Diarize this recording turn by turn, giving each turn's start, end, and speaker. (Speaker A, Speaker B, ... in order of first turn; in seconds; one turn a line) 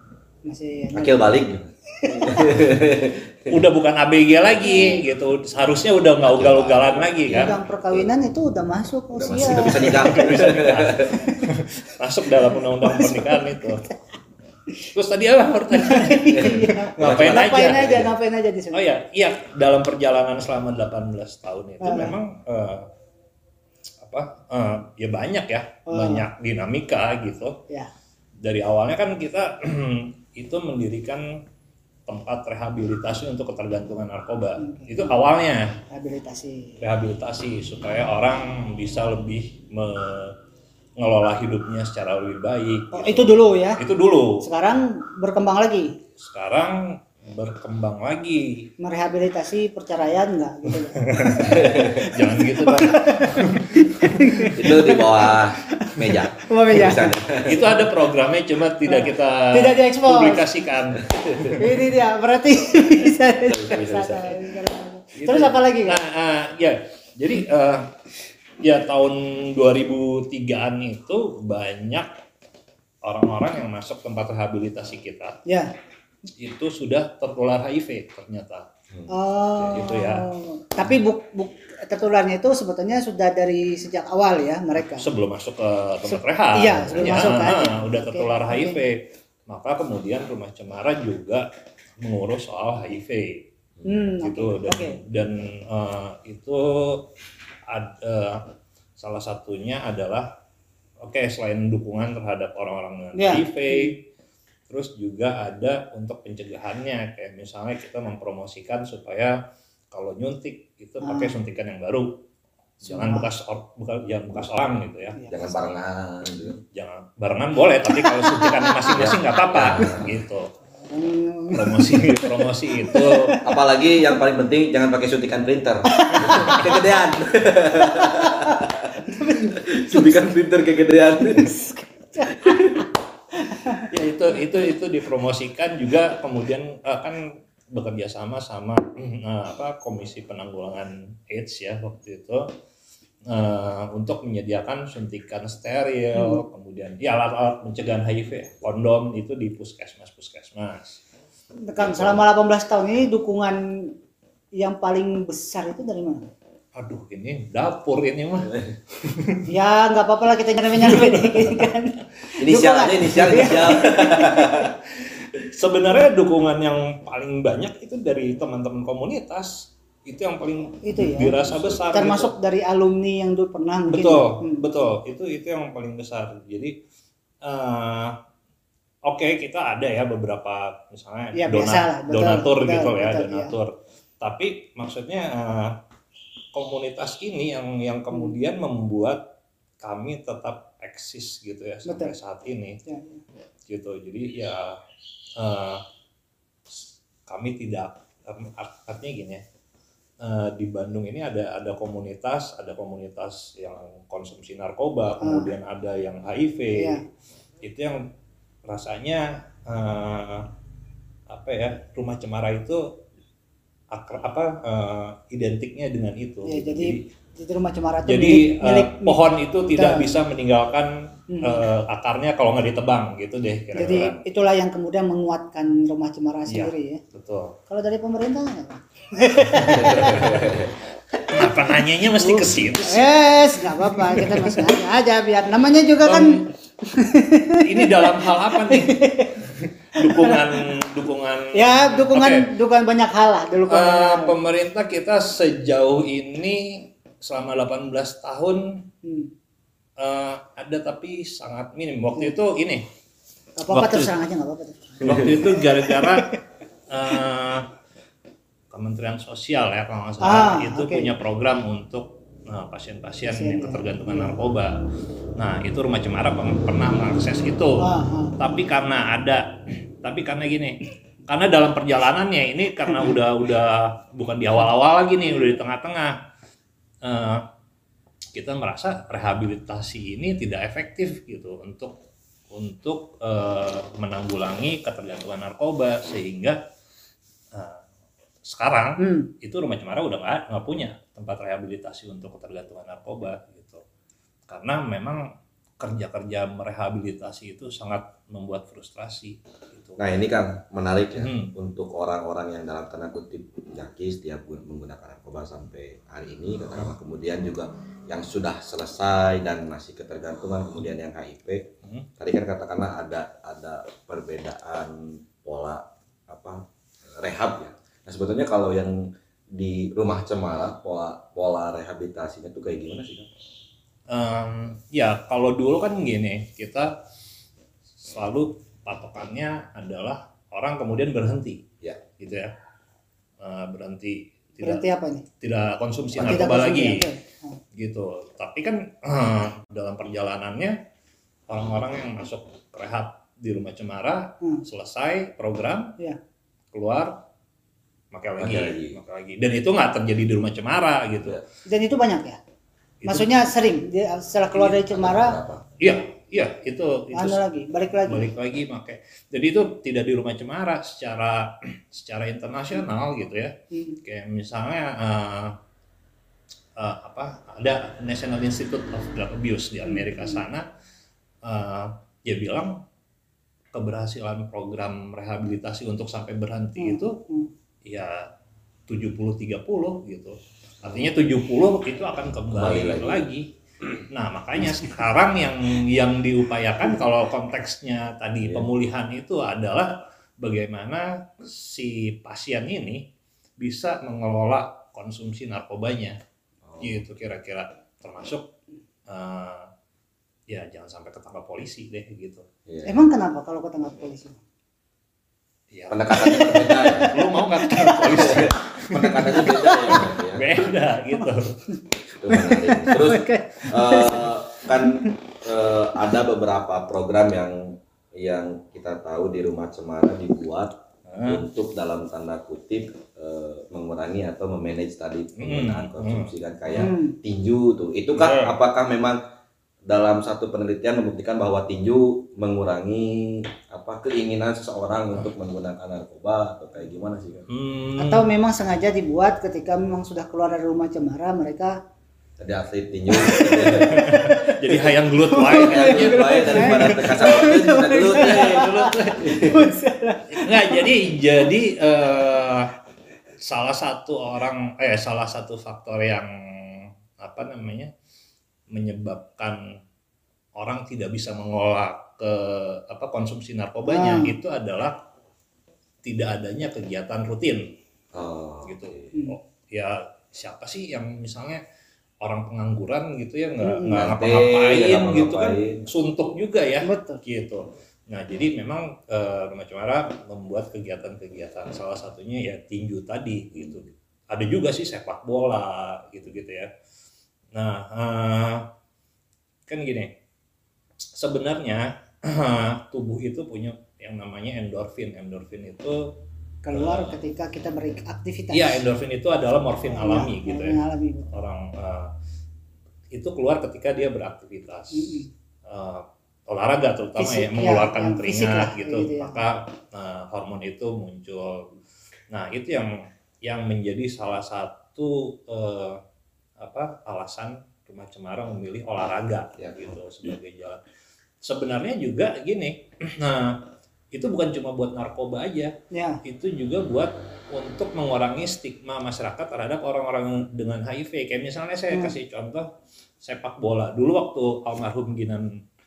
Speaker A: 0.5-1.3
Speaker B: 0.9-3.5
Speaker A: 2.0-2.3
Speaker C: 3.5-7.5
Speaker A: 4.7-5.0
Speaker B: 4.7-4.9
Speaker B: 6.2-8.1
Speaker A: 7.3-10.6
Speaker B: 9.1-11.3
Speaker C: 9.8-13.8
Speaker A: 11.1-11.5
Speaker A: 12.8-13.7
Speaker C: 14.9-18.0
Speaker A: 15.7-18.9
Speaker B: 16.3-18.1
Speaker C: 18.7-22.9
Speaker A: 21.8-22.2
Speaker C: 24.0-27.6
Speaker A: 25.9-26.3
Speaker C: 28.4-31.2
Speaker C: 32.1-35.6
Speaker A: 34.6-35.2
Speaker A: 35.9-36.8
Speaker C: 36.8-40.4
Speaker C: 41.0-44.4
Speaker A: 42.9-43.8
Speaker A: 44.4-46.0
Speaker C: 46.2-48.7
Speaker A: 48.8-57.8
Speaker C: 51.0-54.5
Speaker B: 51.4-52.1
Speaker B: 54.6-57.7
Speaker C: 57.5-61.8
Speaker A: 58.9-60.5
Speaker B: 61.0-61.5
Speaker A: 61.5-66.0
Speaker B: 63.5-64.3
Speaker C: 65.1-67.9
Speaker C: 68.6-72.1
Speaker C: 73.0-75.4
Speaker C: 76.4-78.7
Speaker A: 79.1-85.1
Speaker C: 79.6-80.3
Speaker C: 85.0-91.5
Speaker A: 86.1-88.8
Speaker C: 92.0-93.4
Speaker A: 93.9-95.0
Speaker C: 94.2-97.1
Speaker C: 97.7-98.5
Speaker C: 99.0-100.3
Speaker C: 101.0-104.0
Speaker A: 103.2-103.9
Speaker C: 104.7-109.4
Speaker C: 109.9-112.2
Speaker A: 111.0-111.4
Speaker C: 112.8-115.2
Speaker A: 112.9-113.3
Speaker A: 115.2-115.7
Speaker B: 115.3-116.6
Speaker C: 116.6-120.5
Speaker A: 117.9-119.0
Speaker B: 119.0-120.2
Speaker A: 120.8-123.4
Speaker C: 121.5-123.4
Speaker B: 123.4-131.6
Speaker A: 125.9-126.7
Speaker A: 127.8-130.3
Speaker A: 131.3-133.9
Speaker B: 132.2-132.8
Speaker C: 133.9-142.4
Speaker C: 143.3-151.0
Speaker A: 146.1-146.4
Speaker A: 151.6-153.9
Speaker C: 151.9-152.2
Speaker A: 154.6-156.3
Speaker C: 156.8-159.5
Speaker A: 159.5-164.6
Speaker C: 160.8-161.6
Speaker B: 162.4-164.8
Speaker C: 165.3-172.3
Speaker A: 170.8-171.3
Speaker A: 171.9-174.6
Speaker C: 173.9-176.8
Speaker C: 177.4-178.2
Speaker C: 179.1-185.8
Speaker A: 181.3-183.5
Speaker C: 186.5-189.2
Speaker C: 189.8-192.8
Speaker A: 191.9-192.1
Speaker A: 192.8-193.2
Speaker C: 193.7-194.8
Speaker C: 195.4-195.8
Speaker C: 196.7-199.4
Speaker C: 200.2-207.0
Speaker A: 205.2-205.5
Speaker A: 206.7-207.1
Speaker C: 207.6-208.0
Speaker C: 208.7-210.5
Speaker C: 211.3-212.8
Speaker C: 213.9-217.0
Speaker A: 216.4-219.2
Speaker C: 218.1-224.2
Speaker A: 219.7-220.1
Speaker A: 221.3-221.7
Speaker A: 223.8-227.0
Speaker C: 226.5-227.6
Speaker A: 227.7-230.6
Speaker C: 229.5-230.6
Speaker B: 229.7-230.7
Speaker A: 231.1-231.6
Speaker C: 231.3-234.8
Speaker A: 232.1-239.4
Speaker C: 236.1-236.4
Speaker C: 237.6-242.5
Speaker A: 240.0-240.7
Speaker A: 241.5-244.3
Speaker C: 243.7-248.8
Speaker A: 249.0-249.3
Speaker C: 250.0-252.8
Speaker A: 253.6-256.4
Speaker C: 253.7-254.1
Speaker C: 255.0-256.4
Speaker C: 256.9-257.7
Speaker C: 258.7-264.8
Speaker A: 260.2-261.1
Speaker A: 263.2-264.4
Speaker C: 265.4-267.9
Speaker A: 267.8-268.3
Speaker C: 268.4-269.4
Speaker C: 270.0-276.2
Speaker C: 277.0-277.4
Speaker C: 278.4-282.0
Speaker C: 282.5-286.6
Speaker C: 287.5-287.8
Speaker C: 288.4-293.8
Speaker A: 289.0-289.3
Speaker C: 294.5-295.2
Speaker C: 295.8-300.0
Speaker B: 300.0-311.7
Speaker C: 301.2-301.5
Speaker B: 312.2-316.6
Speaker B: 317.2-323.3
Speaker C: 324.1-326.9
Speaker C: 328.0-331.6
Speaker C: 332.2-332.5
Speaker C: 333.4-334.8
Speaker A: 334.6-335.2
Speaker C: 335.4-337.1
Speaker B: 336.1-336.6
Speaker A: 336.2-337.6
Speaker C: 337.8-340.8
Speaker C: 341.5-346.0
Speaker C: 346.7-347.2
Speaker C: 348.1-351.4
Speaker B: 348.4-349.0
Speaker A: 351.7-352.4
Speaker C: 353.0-353.3
Speaker A: 353.1-355.4
Speaker B: 354.5-355.6
Speaker C: 355.8-357.4
Speaker A: 357.1-358.3
Speaker C: 358.1-365.6
Speaker A: 363.7-364.0
Speaker C: 366.8-370.6
Speaker A: 369.9-370.4
Speaker C: 371.4-372.7
Speaker C: 373.7-377.1
Speaker A: 376.8-377.5
Speaker C: 377.9-378.2
Speaker C: 378.9-383.4
Speaker B: 382.5-383.3
Speaker C: 384.0-393.0
Speaker B: 388.4-388.7
Speaker C: 393.6-396.2
Speaker B: 396.6-397.0
Speaker C: 396.8-398.5
Speaker C: 399.1-399.7
Speaker C: 400.5-402.5
Speaker B: 402.7-403.0
Speaker A: 402.9-404.4
Speaker C: 405.7-409.5
Speaker B: 405.9-407.1
Speaker A: 406.2-408.4
Speaker B: 408.1-410.4
Speaker A: 409.2-410.1
Speaker C: 410.3-411.6
Speaker A: 411.1-415.2
Speaker B: 412.2-420.7
Speaker C: 421.1-421.4
Speaker B: 421.2-429.2
Speaker C: 425.4-426.3
Speaker A: 426.8-427.2
Speaker C: 428.1-428.6
Speaker B: 429.9-437.4
Speaker C: 437.5-438.3
Speaker A: 438.0-441.8
Speaker B: 442.4-444.8
Speaker A: 443.1-450.9
Speaker C: 443.9-447.4
Speaker B: 445.4-449.7
Speaker C: 448.1-449.4
Speaker C: 450.3-452.7
Speaker C: 453.4-457.9
Speaker C: 458.7-459.6
Speaker C: 460.6-465.0
Speaker A: 463.9-464.3
Speaker C: 466.0-467.7
Speaker B: 468.1-469.0
Speaker C: 468.6-471.6
Speaker C: 472.2-486.7
Speaker A: 473.6-474.0
Speaker B: 473.9-475.8
Speaker A: 476.8-477.2
Speaker C: 487.6-488.7
Speaker C: 489.7-490.1
Speaker C: 491.1-496.1
Speaker A: 496.6-498.8
Speaker C: 496.7-497.1
Speaker C: 498.5-502.1
Speaker A: 499.9-501.3
Speaker C: 503.1-511.7
Speaker A: 504.9-505.3
Speaker A: 507.2-509.4
Speaker C: 512.3-512.9
Speaker C: 513.4-516.0
Speaker C: 516.6-520.8
Speaker B: 519.6-519.9
Speaker C: 521.4-523.6
Speaker C: 524.1-525.7
Speaker A: 525.9-526.2
Speaker C: 526.2-532.7
Speaker C: 533.2-535.5